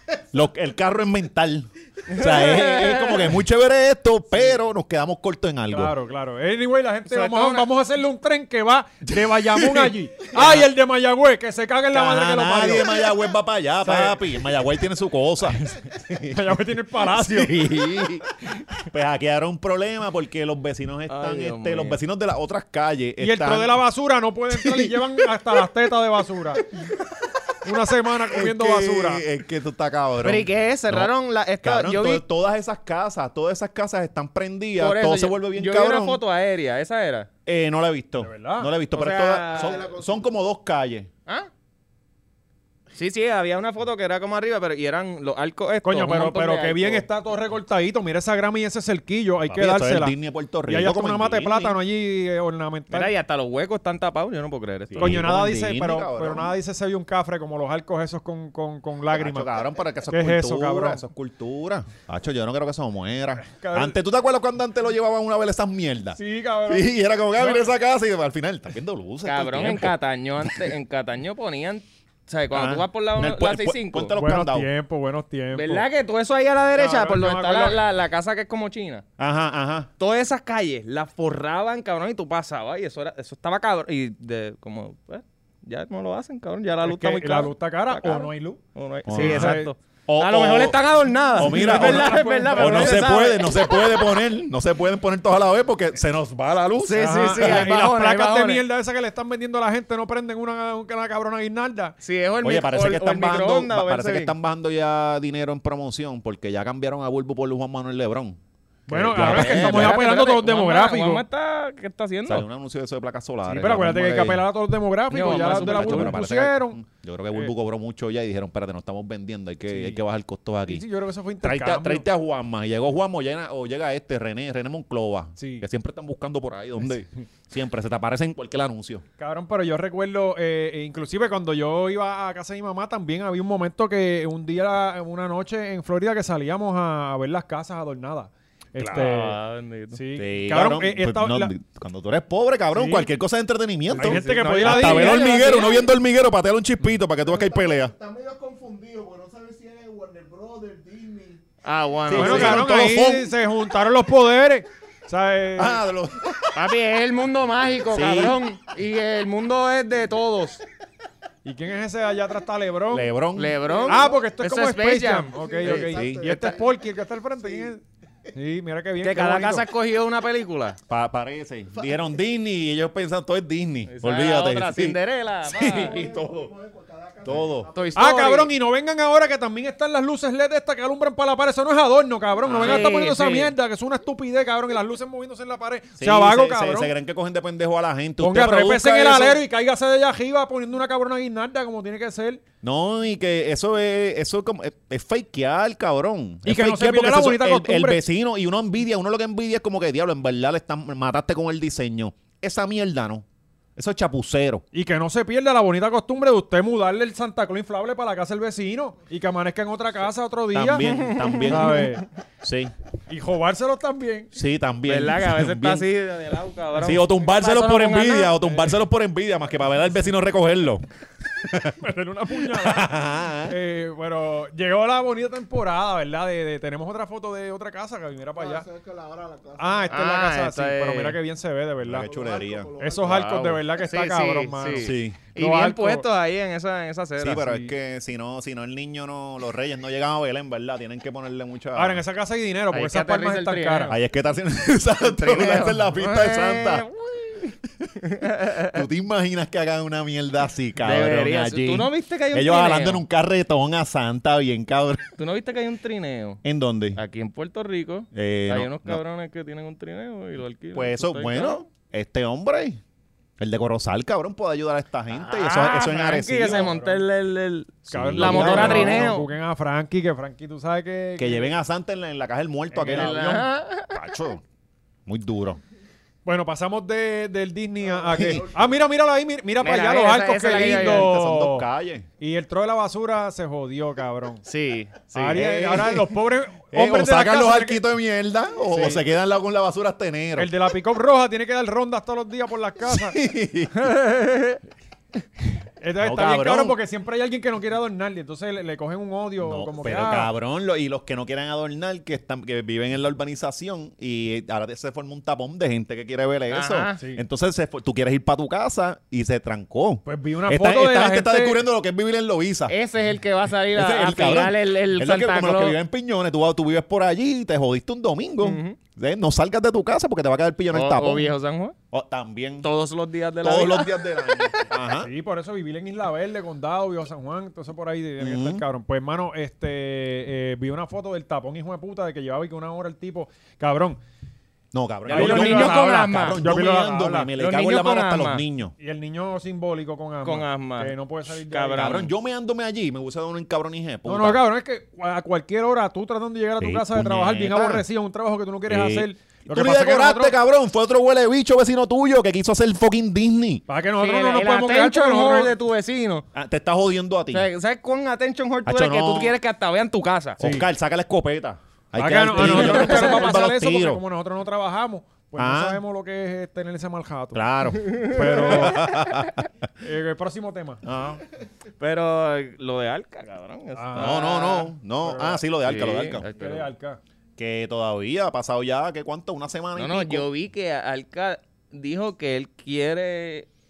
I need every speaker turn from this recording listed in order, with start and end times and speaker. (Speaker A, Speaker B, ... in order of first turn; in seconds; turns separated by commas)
Speaker A: 0.3-5.9, Speaker B: 2.1-3.3, Speaker C: 5.7-13.1, Speaker B: 7.0-7.7, Speaker A: 9.1-10.7, Speaker A: 11.9-23.8, Speaker C: 16.2-17.9, Speaker B: 21.1-22.0, Speaker C: 23.2-26.6, Speaker A: 24.5-25.3, Speaker A: 26.8-27.5, Speaker C: 27.6-29.2, Speaker A: 28.3-36.2, Speaker B: 30.2-32.2, Speaker B: 34.8-37.3, Speaker A: 37.5-41.1, Speaker C: 38.2-38.7, Speaker B: 38.9-39.8, Speaker D: 39.5-40.3, Speaker B: 42.9-47.0, Speaker C: 45.8-50.1, Speaker A: 49.5-51.8, Speaker C: 50.7-53.1, Speaker B: 52.9-55.2, Speaker A: 54.9-56.5, Speaker C: 55.0-59.5, Speaker A: 59.1-70.7, Speaker C: 60.1-61.0, Speaker C: 63.4-64.0, Speaker C: 66.1-67.6, Speaker B: 69.2-74.2, Speaker A: 72.5-74.7, Speaker C: 74.2-75.8, Speaker B: 75.5-79.0, Speaker C: 76.7-77.8, Speaker A: 79.2-79.9, Speaker B: 80.0-94.2, Speaker C: 86.8-88.6, Speaker A: 89.0-90.8, Speaker C: 89.1-89.7, Speaker A: 91.3-97.7, Speaker C: 91.4-93.1, Speaker B: 96.8-98.6, Speaker C: 97.0-102.0, Speaker B: 102.0-104.3, Speaker A: 102.4-110.0, Speaker C: 108.9-111.2, Speaker B: 109.2-112.4, Speaker A: 112.2-114.5, Speaker C: 113.5-116.8, Speaker B: 115.1-116.2, Speaker A: 115.2-120.8, Speaker C: 119.7-120.0, Speaker C: 120.7-122.0, Speaker A: 121.4-129.0, Speaker C: 125.4-125.7, Speaker C: 129.2-139.4, Speaker A: 138.8-139.1, Speaker B: 138.8-140.0, Speaker C: 139.9-141.5, Speaker A: 140.1-147.9, Speaker C: 142.7-143.1, Speaker B: 143.9-145.9, Speaker C: 144.0-145.7, Speaker D: 147.2-151.4, Speaker B: 151.6-152.8, Speaker A: 152.1-153.3, Speaker C: 152.1-155.8, Speaker A: 155.6-156.6, Speaker B: 156.5-160.6, Speaker A: 157.9-158.4, Speaker C: 161.4-163.1, Speaker A: 162.9-163.6, Speaker B: 163.3-166.6, Speaker D: 163.6-164.4, Speaker C: 163.9-167.8, Speaker D: 165.3-166.8, Speaker A: 165.9-166.2, Speaker D: 167.4-167.7, Speaker C: 168.3-169.6, Speaker B: 169.0-170.8, Speaker A: 170.9-176.5, Speaker D: 171.8-172.0, Speaker B: 173.9-176.0, Speaker D: 175.5-178.1, Speaker A: 177.2-177.7, Speaker B: 177.7-178.5, Speaker C: 177.9-186.9, Speaker A: 182.4-182.9, Speaker B: 182.5-183.5, Speaker A: 186.0-189.4, Speaker C: 188.2-192.4, Speaker A: 192.6-203.2, Speaker C: 196.4-198.0, Speaker A: 203.8-204.6, Speaker C: 204.7-210.9, Speaker A: 210.5-211.9, Speaker B: 210.8-211.9, Speaker C: 211.4-212.0, Speaker A: 212.4-212.7, Speaker C: 213.1-214.3, Speaker A: 214.3-215.9, Speaker B: 214.8-218.3, Speaker A: 216.7-221.8, Speaker C: 218.4-218.8, Speaker C: 221.8-228.6, Speaker A: 222.3-223.6, Speaker D: 228.3-230.0, Speaker C: 229.6-232.1, Speaker B: 229.9-231.2, Speaker A: 231.8-232.7, Speaker D: 231.9-233.5, Speaker C: 232.8-236.0, Speaker B: 233.0-237.4, Speaker A: 234.8-235.2, Speaker A: 237.2-242.0, Speaker C: 237.4-237.7, Speaker C: 241.7-243.9, Speaker B: 242.7-244.0, Speaker A: 243.9-246.9, Speaker B: 245.0-248.8, Speaker A: 248.4-255.1, Speaker B: 250.8-253.0, Speaker B: 255.2-256.4, Speaker A: 256.4-257.0, Speaker B: 256.9-261.6, Speaker A: 258.1-259.0, Speaker A: 260.7-262.8, Speaker A: 263.4-266.7, Speaker B: 265.1-269.3, Speaker C: 266.4-267.0, Speaker A: 267.9-269.1, Speaker C: 267.9-271.5, Speaker A: 271.2-274.4, Speaker C: 272.7-273.3, Speaker B: 272.9-273.9, Speaker A: 275.1-275.6, Speaker C: 276.2-281.7, Speaker D: 277.8-278.7, Speaker A: 278.1-278.4, Speaker B: 279.6-281.1, Speaker A: 280.5-282.1, Speaker C: 282.2-284.4, Speaker B: 284.4-285.0, Speaker A: 285.1-286.1, Speaker C: 285.1-287.8, Speaker A: 286.7-290.5, Speaker C: 288.7-289.0, Speaker C: 290.4-293.2, Speaker A: 292.9-293.9, Speaker B: 293.8-294.6, Speaker C: 295.8-300.3, Speaker A: 296.0-296.8, Speaker A: 299.4-312.8, Speaker B: 306.5-307.0, Speaker C: 310.0-311.6, Speaker B: 312.7-315.8, Speaker A: 313.7-321.3, Speaker B: 318.4-318.8, Speaker B: 320.7-321.7, Speaker A: 321.9-322.7, Speaker B: 322.6-324.5, Speaker A: 323.4-325.1, Speaker C: 325.0-334.0, Speaker A: 328.2-328.6, Speaker A: 334.7-338.7, Speaker B: 335.1-336.4, Speaker C: 335.1-337.3, Speaker B: 337.4-338.4, Speaker C: 338.8-342.0, Speaker B: 340.2-340.9, Speaker B: 341.5-342.1, Speaker A: 341.7-344.4, Speaker C: 344.1-350.4, Speaker A: 346.6-347.9, Speaker A: 348.7-353.6, Speaker C: 353.7-355.5, Speaker B: 354.0-356.2, Speaker A: 356.3-357.4, Speaker B: 357.3-360.4, Speaker A: 358.6-359.3, Speaker C: 360.4-360.6, Speaker A: 360.4-364.0, Speaker C: 361.9-367.4, Speaker B: 362.4-363.3, Speaker A: 365.4-365.8, Speaker A: 367.3-369.5, Speaker B: 367.8-369.3, Speaker C: 367.9-368.9, Speaker C: 369.8-370.8, Speaker A: 370.8-371.2, Speaker B: 371.8-374.7, Speaker C: 373.8-375.4, Speaker A: 373.9-376.3, Speaker B: 375.6-376.7, Speaker C: 376.3-377.0, Speaker A: 377.4-380.3, Speaker B: 379.7-383.5